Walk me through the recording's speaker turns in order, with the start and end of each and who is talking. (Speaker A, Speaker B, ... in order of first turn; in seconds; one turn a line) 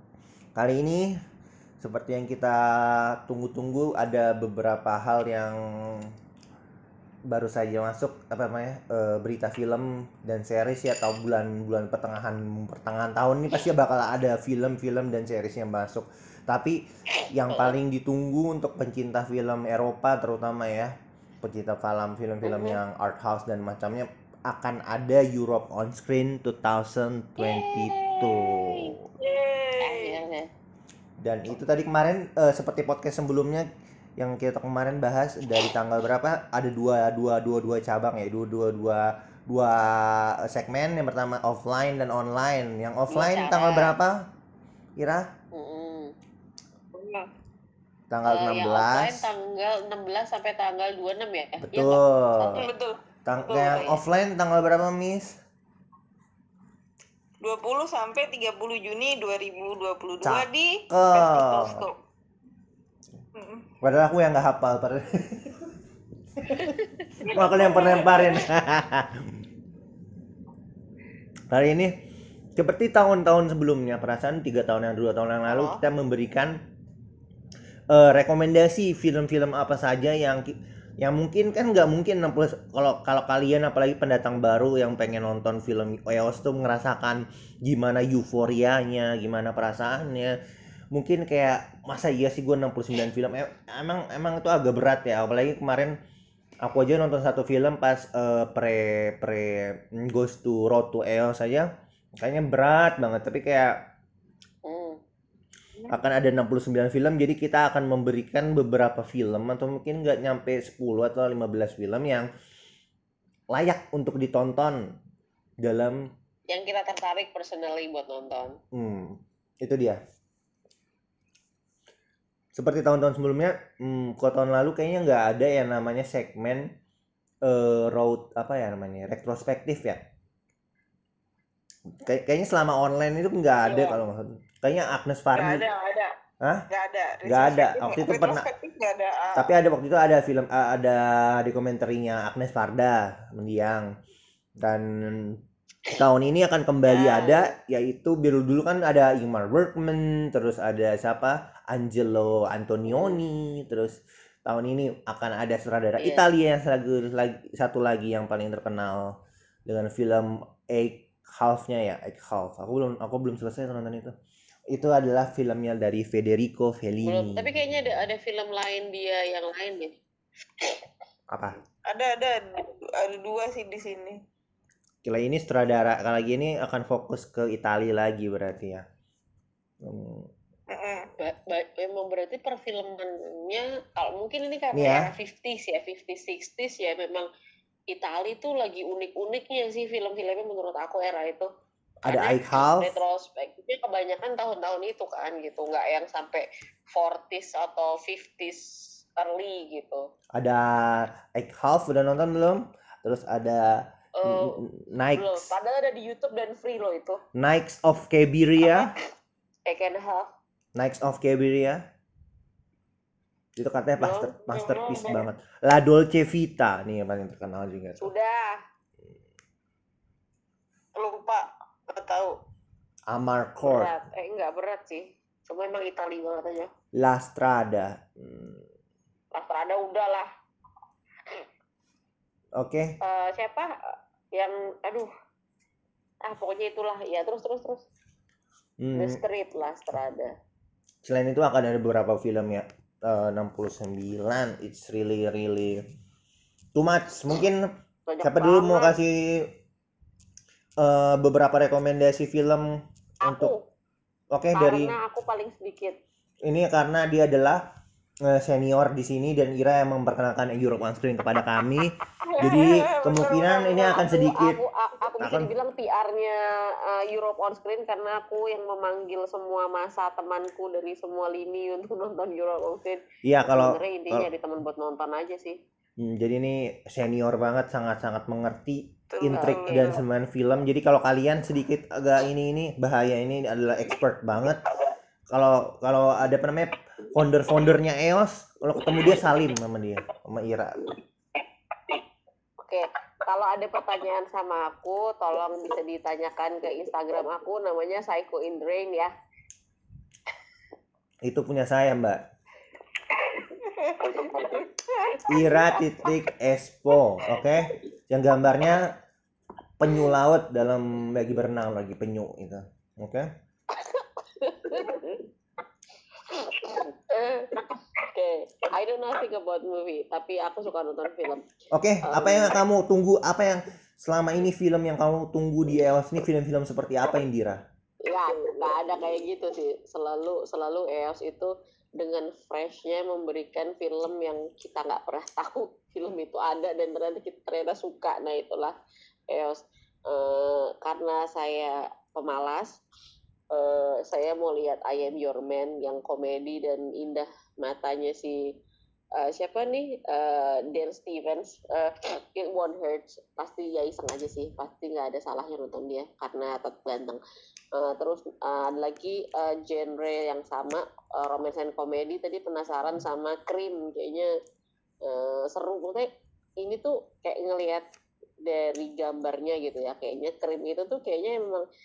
Speaker A: 0.6-1.1
Speaker A: 1.8-6.1
Speaker A: 7.3-29.1
Speaker B: 22.4-22.8
Speaker B: 27.4-28.9
Speaker C: 29.2-30.2
Speaker B: 29.8-30.5
Speaker A: 31.2-44.2
Speaker B: 43.1-44.0
Speaker A: 45.0-45.3
Speaker B: 45.5-46.1
Speaker A: 48.1-49.3
Speaker B: 48.3-52.7
Speaker A: 51.6-52.7
Speaker C: 52.5-53.0
Speaker A: 53.2-55.4
Speaker B: 53.5-54.0
Speaker C: 57.4-61.9
Speaker A: 60.2-61.8
Speaker C: 63.4-63.7
Speaker A: 63.8-65.7
Speaker A: 66.4-66.8
Speaker B: 66.8-67.3
Speaker C: 67.2-68.4
Speaker A: 67.3-69.3
Speaker B: 67.8-68.1
Speaker A: 71.5-71.9
Speaker A: 72.5-76.6
Speaker A: 77.9-90.4
Speaker A: 90.9-95.9
Speaker A: 96.6-103.8
Speaker B: 104.6-105.0
Speaker A: 105.9-112.3
Speaker A: 113.5-114.8
Speaker A: 115.6-116.0
Speaker B: 116.5-118.6
Speaker A: 118.7-120.0
Speaker A: 122.5-126.7
Speaker A: 127.4-130.1
Speaker A: 131.9-135.7
Speaker C: 135.3-136.1
Speaker A: 136.4-136.7
Speaker C: 136.7-139.5
Speaker A: 137.2-138.5
Speaker A: 139.3-143.9
Speaker A: 144.6-159.1
Speaker C: 146.9-147.5
Speaker B: 152.9-153.2
Speaker B: 156.0-156.2
Speaker A: 159.7-164.1
Speaker A: 164.7-167.9
Speaker B: 167.0-170.0
Speaker A: 171.3-171.6
Speaker C: 171.9-174.2
Speaker A: 175.0-178.8
Speaker A: 179.8-180.3
Speaker C: 180.7-181.1
Speaker B: 181.2-187.3
Speaker A: 184.7-185.1
Speaker B: 187.9-191.5
Speaker A: 192.0-192.9
Speaker B: 192.0-200.1
Speaker A: 200.3-205.5
Speaker B: 204.2-204.6
Speaker B: 205.1-207.2
Speaker A: 207.3-208.9
Speaker B: 209.7-210.3
Speaker A: 210.8-211.8
Speaker A: 213.6-218.1
Speaker B: 214.0-215.2
Speaker B: 218.0-218.6
Speaker C: 220.9-222.4
Speaker A: 223.1-223.9
Speaker B: 223.6-226.7
Speaker A: 227.0-228.6
Speaker B: 229.3-230.3
Speaker A: 232.6-232.9
Speaker B: 233.0-235.1
Speaker B: 236.2-237.8
Speaker A: 238.8-239.2
Speaker B: 238.9-240.3
Speaker A: 241.0-245.8
Speaker A: 246.7-247.7
Speaker B: 248.1-248.9
Speaker A: 248.2-249.5
Speaker A: 250.8-252.7
Speaker B: 253.2-253.7
Speaker A: 253.2-253.5
Speaker A: 254.3-254.9
Speaker B: 254.5-256.0
Speaker A: 256.4-257.6
Speaker A: 258.2-264.6
Speaker C: 262.3-263.4
Speaker B: 262.4-275.6
Speaker A: 265.2-265.5
Speaker A: 273.2-274.3
Speaker A: 276.0-284.6
Speaker C: 279.1-279.9
Speaker B: 279.3-280.0
Speaker A: 285.3-290.8
Speaker B: 292.6-299.1
Speaker A: 301.2-302.2
Speaker C: 303.6-305.6
Speaker B: 304.1-304.6
Speaker A: 305.3-309.0
Speaker B: 305.4-305.7
Speaker A: 309.8-313.3
Speaker B: 313.8-315.2
Speaker B: 316.3-321.4
Speaker A: 321.7-327.6
Speaker B: 322.0-322.6
Speaker B: 328.0-338.8
Speaker B: 339.3-342.8
Speaker B: 343.5-348.5
Speaker B: 349.1-357.2
Speaker B: 357.7-364.3
Speaker B: 365.0-366.1
Speaker B: 366.6-367.8
Speaker B: 368.4-371.6